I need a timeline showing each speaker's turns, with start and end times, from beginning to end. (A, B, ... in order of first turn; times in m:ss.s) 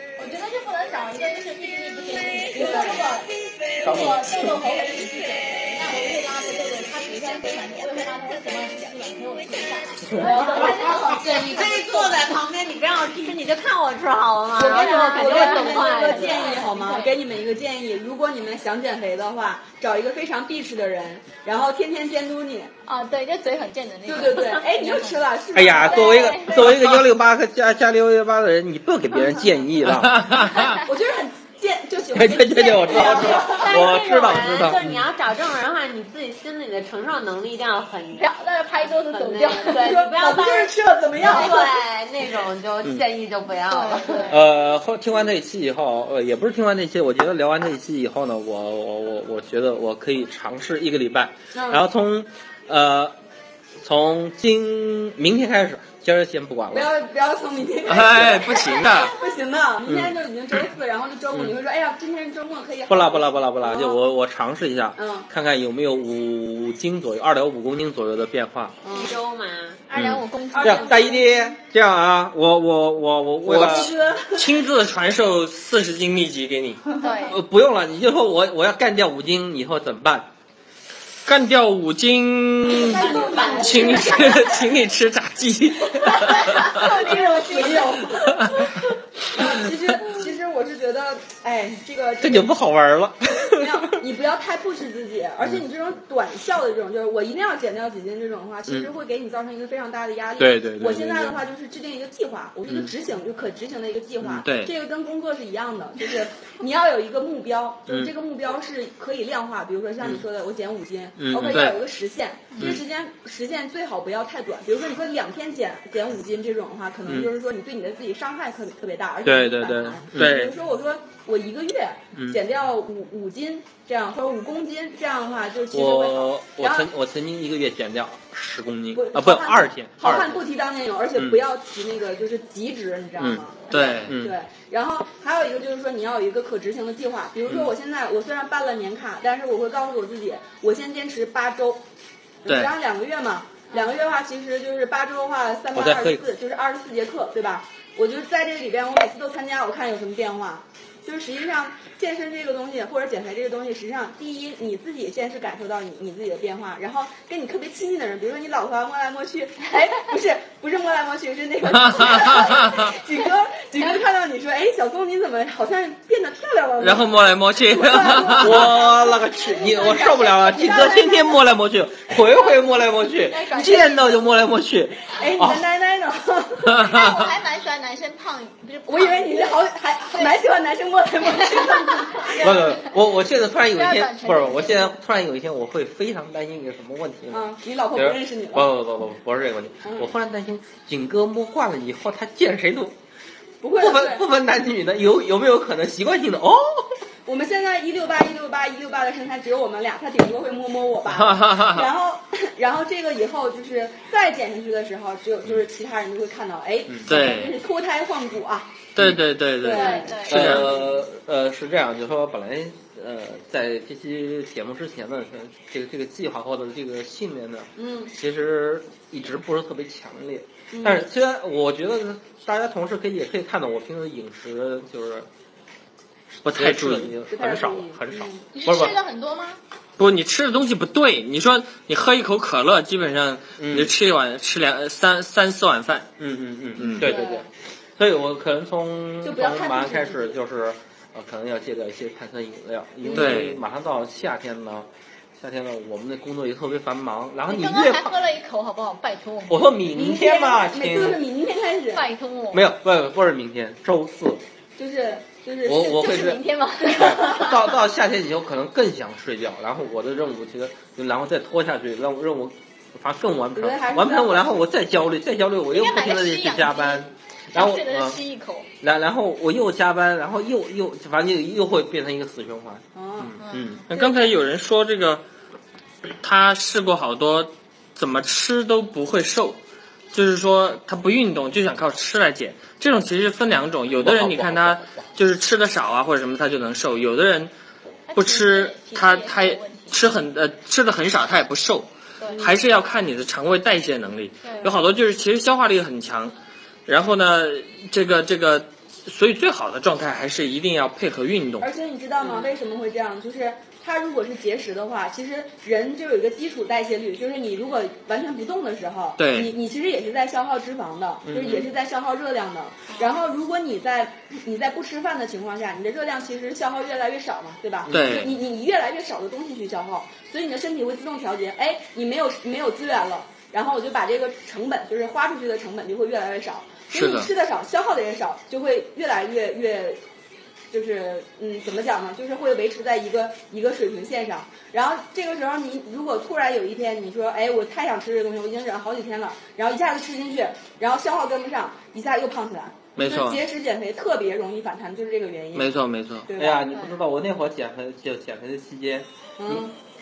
0:00.2-0:12.3 A
0:02.5-0:03.0 B
0:03.8-0:04.6 C
0:10.1-0:10.4 C
0:10.6-0:16.6 D
0:14.5-0:22.7 B
0:14.6-0:17.1 A
0:22.8-0:26.8 A
0:24.0-0:26.7 B
0:25.5-0:30.4 C
0:30.0-0:30.7 E
0:30.4-0:30.8 A
0:30.8-0:33.8 B
0:32.1-0:35.0 C
0:33.2-0:38.3 D
0:33.4-0:33.8 A
0:38.2-0:40.1 A
0:38.8-0:44.4 D
0:39.8-0:41.8 B
0:41.2-0:41.6 A
0:43.7-0:44.4 A
0:44.2-0:53.1 C
0:51.5-0:51.8 B
0:53.8-0:56.9 C
0:56.7-1:04.0 B
0:57.8-0:59.2 E
0:59.8-1:00.2 C
1:02.9-1:08.8 C
1:05.0-1:05.3 B
1:08.8-1:09.2 B
1:08.9-1:09.8 D
1:09.8-1:11.3 A
1:09.9-1:13.9 C
1:10.5-1:11.5 B
1:13.4-1:16.8 E
1:13.5-1:14.6 B
1:17.0-1:17.4 A
1:17.3-1:20.3 C
1:21.2-1:27.1 E
1:22.7-1:24.7 B
1:23.0-1:24.3 A
1:26.0-1:28.6 B
1:26.6-1:27.8 A
1:28.2-1:28.7 E
1:29.3-1:32.5 B
1:32.2-1:34.0 C
1:33.6-2:06.9 B
1:40.4-1:41.4 C
1:44.4-1:44.7 E
1:51.2-1:51.8 C
1:59.2-2:00.4 C
2:00.1-2:00.5 E
2:02.1-2:02.4 C
2:05.7-2:10.4 C
2:08.9-2:21.8 B
2:13.2-2:13.4 C
2:13.7-2:14.2 E
2:14.0-2:14.4 C
2:22.4-2:51.4 B
2:22.5-2:22.7 E
2:25.7-2:26.2 C
2:41.9-2:42.8 E
2:46.8-2:48.7 E
2:48.3-2:55.6 C
2:53.2-2:54.2 A
2:55.2-2:56.8 B
2:56.8-2:59.6 A
2:58.9-3:02.8 B
3:01.4-3:02.9 A
3:02.3-3:13.0 C
3:03.6-3:05.0 A
3:07.3-3:08.7 B
3:09.8-3:10.1 B
3:13.6-3:14.2 B
3:13.8-3:17.0 C
3:17.2-3:28.9 B
3:21.2-3:21.9 E
3:27.0-3:27.6 E
3:28.9-3:30.7 E
3:29.6-3:30.8 B
3:29.6-3:30.6 A
3:30.2-3:45.3 C
3:37.8-3:38.1 B
3:40.7-3:41.0 B
3:46.4-3:48.9 C
3:46.4-3:47.1 E
3:47.3-3:48.4 B
3:48.5-3:49.6 A
3:50.0-3:56.1 E
3:53.6-3:53.9 C
3:56.2-4:08.2 C
3:56.8-3:57.1 E
3:57.0-3:57.5 B
3:59.2-4:00.4 B
4:03.1-4:03.3 B
4:03.1-4:03.6 E
4:07.5-4:09.6 A
4:09.5-4:11.2 C
4:09.9-4:12.1 B
4:11.9-4:12.6 A
4:12.5-4:14.4 C
4:14.8-4:16.3 B
4:15.6-4:28.2 C
4:15.7-4:17.6 A
4:17.0-4:17.4 B
4:23.5-4:24.5 B
4:25.7-4:28.7 A
4:28.8-4:33.8 C
4:32.9-4:33.4 B
4:33.4-4:33.8 A
4:33.9-4:35.2 E
4:36.2-4:39.6 E
4:40.1-4:47.5 E
4:43.9-4:45.0 C
4:48.1-4:50.0 A
4:48.1-4:56.3 E
4:52.2-4:52.5 A
4:52.3-4:52.6 B
4:54.4-4:54.8 A
4:56.9-5:01.7 E
5:01.6-5:30.0 B
5:09.2-5:09.5 E
5:11.3-5:11.6 C
5:12.9-5:13.1 A
5:17.9-5:18.3 C
5:17.9-5:18.3 E
5:26.9-5:27.3 E
5:30.7-5:45.7 B
5:43.0-5:43.4 E
5:45.5-5:46.3 E
5:46.2-5:46.8 B
5:46.3-5:49.7 C
5:49.4-5:49.7 B